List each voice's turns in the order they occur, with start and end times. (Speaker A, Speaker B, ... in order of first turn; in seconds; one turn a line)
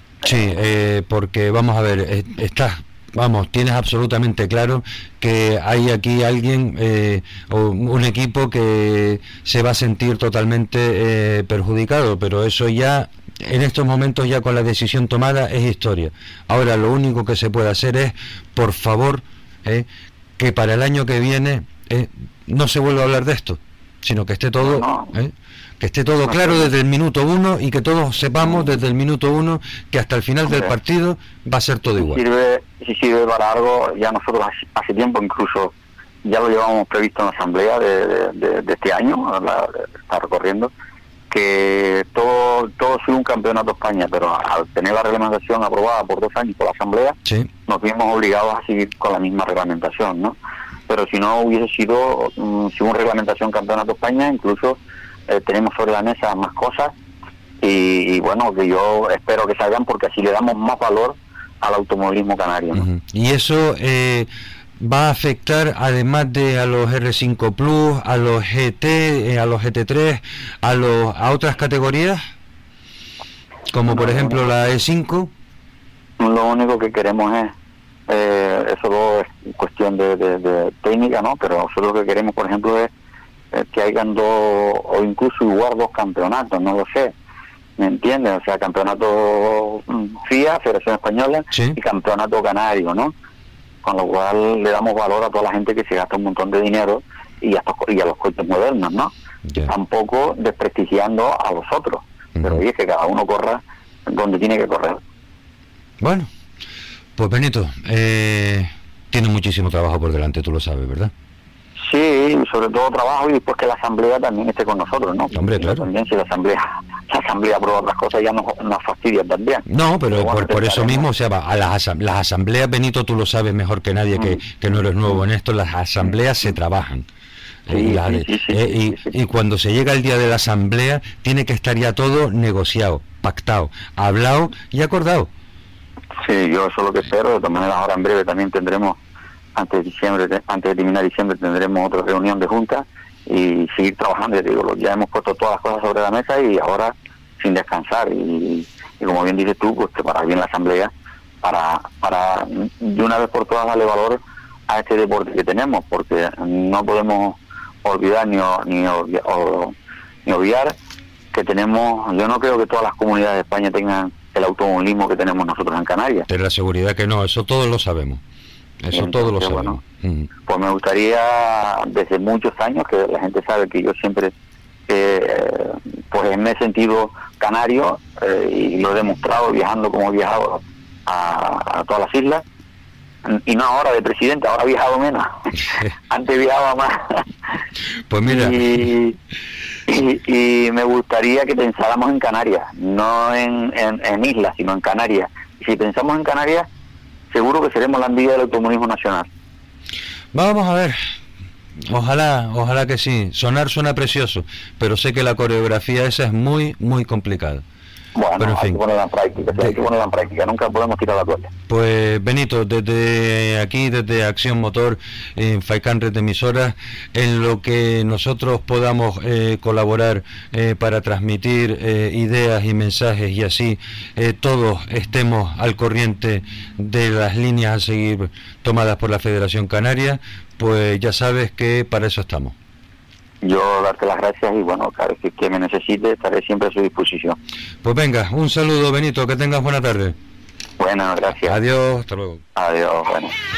Speaker A: 0.2-19.9
Speaker A: 20.4-32.2
Speaker B: 24.6-25.1
Speaker B: 26.2-26.7
Speaker B: 32.0-35.7
Speaker B: 36.2-40.7
Speaker B: 41.3-47.1
Speaker B: 47.7-50.4
Speaker B: 50.9-56.9
Speaker B: 57.6-62.9
Speaker A: 62.7-72.2
Speaker A: 73.7-75.3
Speaker B: 73.9-74.4
Speaker B: 76.2-77.5
Speaker B: 78.1-82.9
Speaker B: 83.5-87.1
Speaker B: 87.8-93.1
Speaker A: 91.5-91.8
Speaker B: 93.8-99.1
Speaker A: 99.5-99.7
Speaker B: 99.6-105.0
Speaker A: 102.3-102.6
Speaker A: 106.0-106.3
Speaker A: 107.2-111.1
Speaker B: 111.8-121.1
Speaker A: 115.3-115.9
Speaker A: 119.7-127.0
Speaker A: 127.7-135.3
Speaker B: 127.7-129.1
Speaker B: 136.2-139.0
Speaker B: 139.6-150.9
Speaker B: 151.4-159.7
Speaker B: 160.2-160.7
Speaker B: 161.3-166.3
Speaker A: 166.3-168.2
Speaker A: 168.8-170.3
Speaker B: 168.9-169.8
Speaker B: 170.5-174.3
Speaker B: 174.9-182.4
Speaker B: 183.2-185.3
Speaker B: 186.1-187.2
Speaker A: 188.1-188.8
Speaker B: 188.2-189.2
Speaker B: 189.9-196.7
Speaker B: 197.3-199.3
Speaker A: 200.3-201.0
Speaker A: 201.9-207.6
Speaker B: 208.2-211.5
Speaker A: 208.4-208.8
Speaker A: 211.7-232.5
Speaker B: 233.4-237.4
Speaker A: 237.8-240.2
Speaker B: 240.8-241.6
Speaker A: 241.4-242.4
Speaker B: 242.6-243.3